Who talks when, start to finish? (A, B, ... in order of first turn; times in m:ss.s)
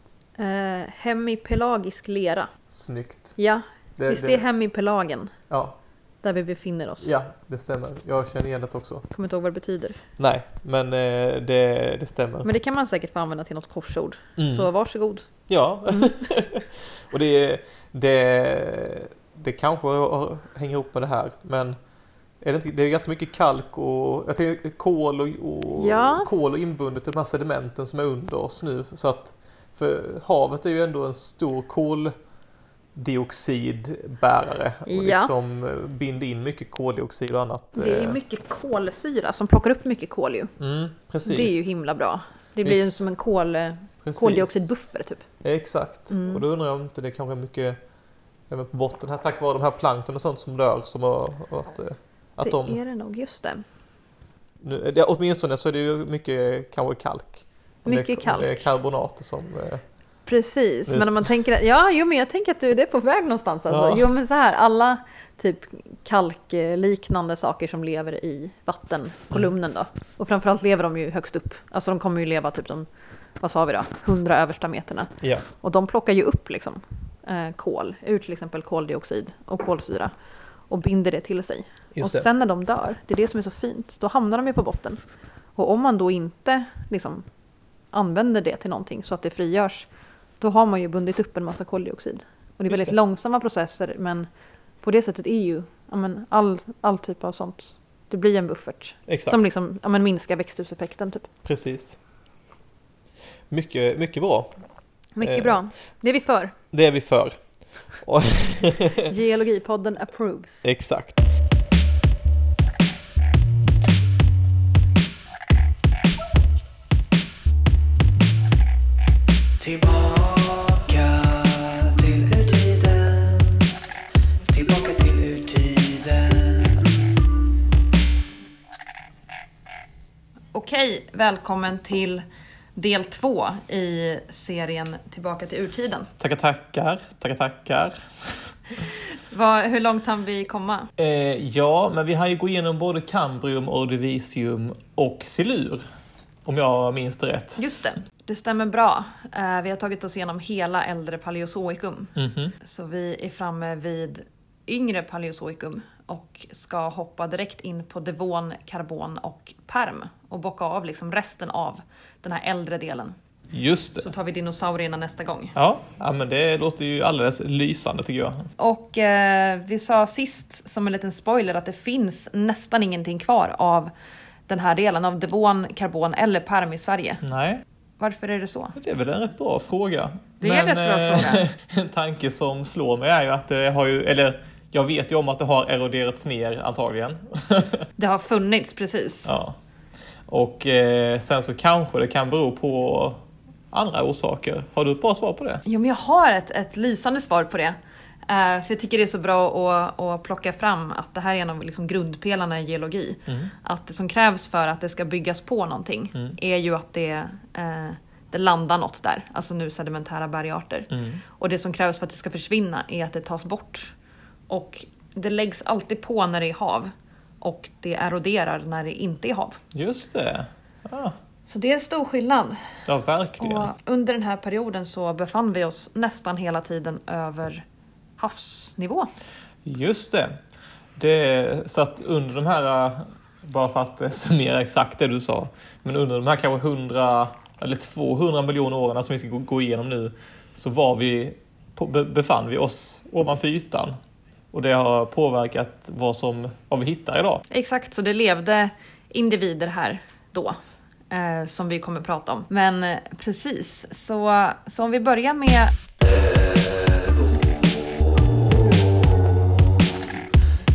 0:00.4-0:02.5 A
0:02.7-0:03.4 B
0:03.4-0:05.3 A
0:04.0-0:04.5 B
0:05.5-0:05.8 B
0:06.2-0:07.2 A
0:07.0-0:09.0 B
0:09.1-0:10.0 A
0:10.2-0:12.5 B
0:12.4-0:15.3 A
0:14.4-0:14.7 B
0:15.5-0:21.8 B
0:15.9-0:16.2 A
0:22.4-0:32.1 B
0:25.8-0:26.3 A
0:33.0-0:38.2 B
0:34.9-0:35.3 A
0:37.8-0:40.5 A
0:40.6-0:41.7 B
0:41.2-0:45.2 A
0:42.6-0:43.0 B
0:44.0-0:44.9 B
0:45.4-0:47.8 B
0:46.1-0:46.4 A
0:48.5-0:52.8 B
0:52.4-0:53.6 A
0:54.6-0:59.8 B
0:57.8-0:58.7 A
1:00.3-1:12.9 A
1:00.9-1:01.3 B
1:03.7-1:04.1 B
1:13.4-1:20.1 A
1:20.7-1:25.0 A
1:22.0-1:22.3 B
1:25.6-1:27.3 A
1:27.9-1:29.9 A
1:30.4-1:34.3 A
1:32.7-1:32.9 B
1:34.8-1:41.3 A
1:39.1-1:39.4 B
1:41.4-1:42.0 B
1:43.5-1:44.6 B
1:45.2-1:46.6 A
1:45.2-1:45.6 B
1:46.7-1:47.4 B
1:48.0-1:49.1 B
1:49.0-1:50.7 A
1:50.6-1:51.2 B
1:59.6-2:03.7 C
2:04.5-2:06.9 C
2:10.5-2:12.2 A
2:12.8-2:16.1 A
2:16.2-2:18.5 B
2:19.3-2:20.9 A
2:21.0-2:25.8 B
2:26.4-2:27.6 B
2:27.6-2:43.2 A
2:32.2-2:32.5 B
2:43.5-2:44.1 B
2:44.0-2:45.6 A
2:45.6-2:48.5 B
2:48.6-2:53.9 A
2:54.5-2:57.2 A
2:57.2-2:57.6 B
2:58.0-2:58.8 A
2:58.8-3:07.9 B
3:00.4-3:01.5 A
3:08.0-3:09.3 A
3:09.3-3:09.6 B
3:10.3-3:15.6 B
3:15.6-3:33.9 A
3:30.9-3:31.2 B
3:34.5-3:39.6 A
3:39.7-3:41.2 B
3:41.5-3:42.7 A
3:42.9-3:43.7 B
3:43.4-3:47.6 A
3:48.2-3:49.1 A
3:49.6-3:50.3 B
3:51.0-4:04.0 B
4:04.5-4:07.4 B
4:07.5-4:10.6 A
4:11.1-4:15.8 A